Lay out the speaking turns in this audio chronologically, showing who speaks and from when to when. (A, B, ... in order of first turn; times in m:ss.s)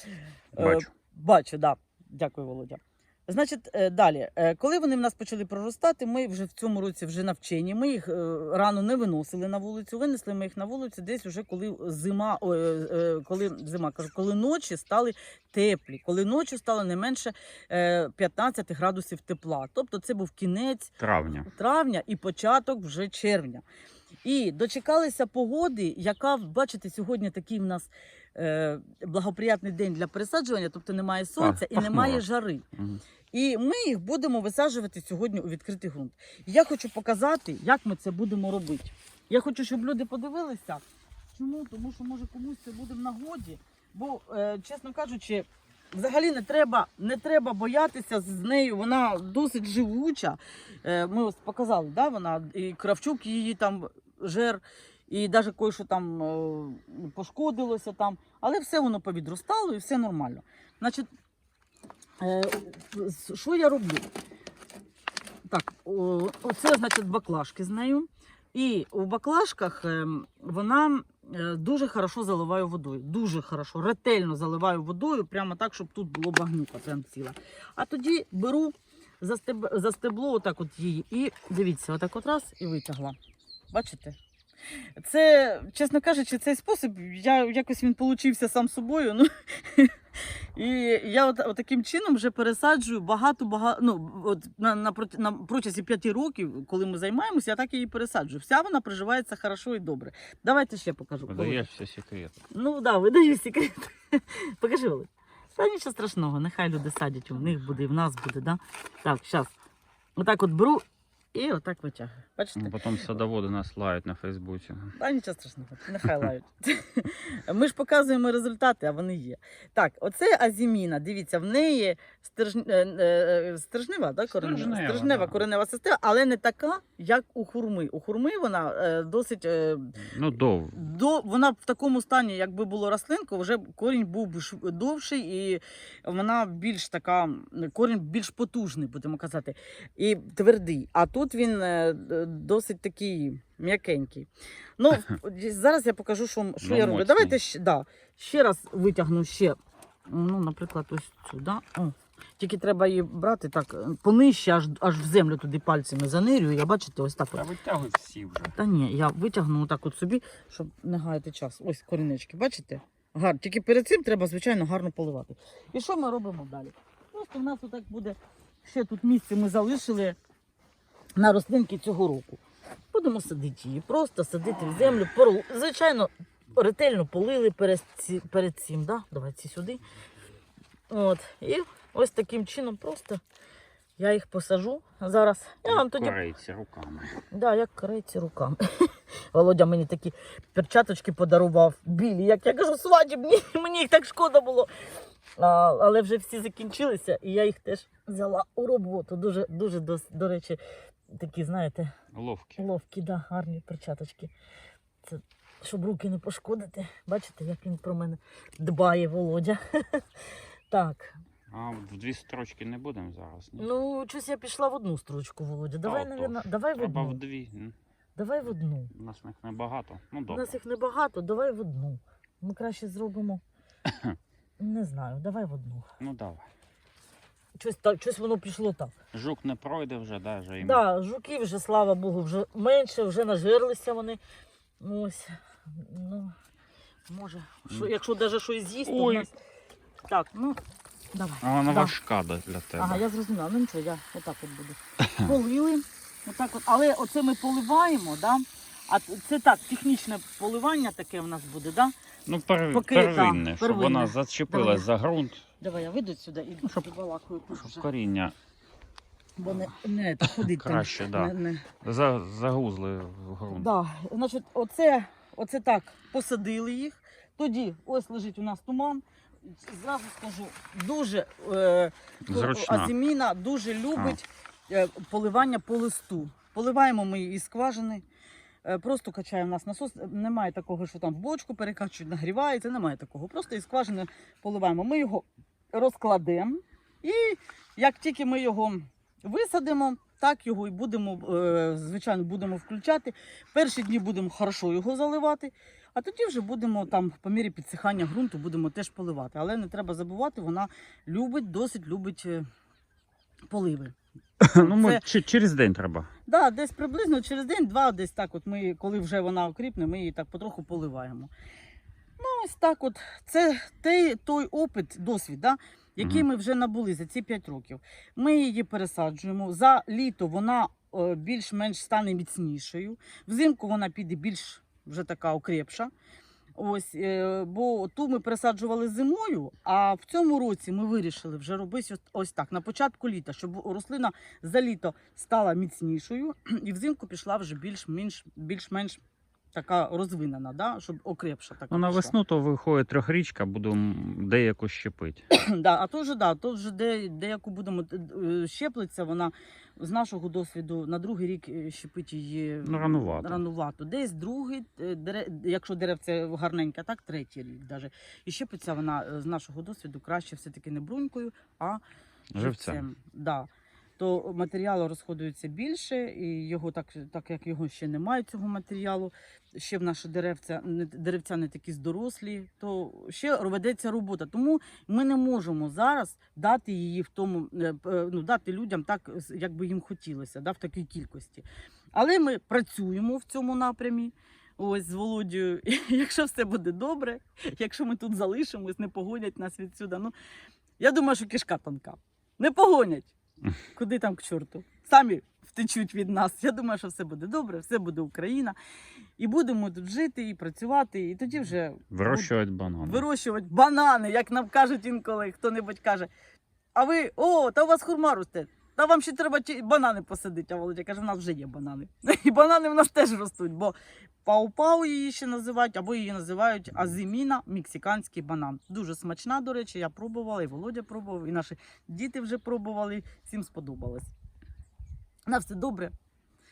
0:00.5-0:20.9 A
0:00.5-0:00.9 B
0:21.0-0:21.5 B
0:21.4-0:23.6 A
0:24.2-0:32.7 A
0:31.4-0:32.2 B
0:33.3-0:40.8 A
0:41.3-1:01.1 A
1:02.2-1:04.1 A
1:05.5-1:23.2 A
1:23.7-1:24.2 A
1:25.0-1:29.9 A
1:30.5-1:41.7 A
1:41.3-1:42.4 B
1:42.5-1:49.5 A
1:50.2-1:53.0 A
1:52.6-1:54.9 B
1:55.0-2:10.0 A
2:04.3-2:05.4 B
2:10.1-2:10.8 B
2:10.7-2:37.5 A
2:26.6-2:27.4 B
2:37.3-2:38.5 B
2:38.5-2:50.2 A
2:51.2-2:52.4 A
2:52.9-2:59.8 A
3:00.9-3:03.2 A
3:04.0-3:06.2 A
3:05.6-3:07.2 B
3:07.3-3:14.7 A
3:15.4-3:20.6 A
3:21.1-3:21.9 A
3:22.1-3:22.6 B
3:22.6-3:24.3 A
3:25.0-3:30.0 A
3:30.7-3:31.2 A
3:31.5-3:33.7 B
3:33.6-3:37.2 A
3:35.8-3:37.7 B
3:38.2-3:38.9 A
3:38.9-3:40.6 B
3:40.3-3:43.4 A
3:43.9-3:44.2 B
3:44.6-3:45.9 A
3:46.0-3:46.5 B
3:47.6-3:48.9 A
3:49.1-3:50.8 B
3:50.6-3:54.2 A
3:54.8-3:56.3 A
3:57.1-3:59.3 A
3:58.8-3:59.3 B
4:00.1-4:00.6 A
4:01.1-4:01.9 A
4:01.4-4:03.0 B
4:02.8-4:11.9 A
4:12.3-4:15.4 B
4:12.7-4:14.9 A
4:15.6-4:17.8 A
4:17.6-4:18.3 B
4:19.4-4:21.7 A
4:20.2-4:23.7 B
4:23.5-4:38.0 A
4:32.2-4:32.9 B
4:38.6-5:02.4 A
5:03.5-5:03.9 A
5:04.4-5:06.1 B
5:04.6-5:05.0 A
5:06.3-5:11.3 A
5:12.2-5:25.9 A
5:16.0-5:16.2 B
5:26.6-5:39.0 A
5:39.5-5:42.1 A
5:41.7-5:45.2 B
5:45.3-6:01.8 A
5:52.6-5:53.4 B
6:02.3-6:02.8 B
6:02.4-6:30.1 A
6:30.8-6:33.1 A
6:33.7-6:38.6 A
6:39.2-6:46.1 A
6:41.9-6:43.0 B
6:46.7-7:04.1 A
7:05.3-7:05.9 A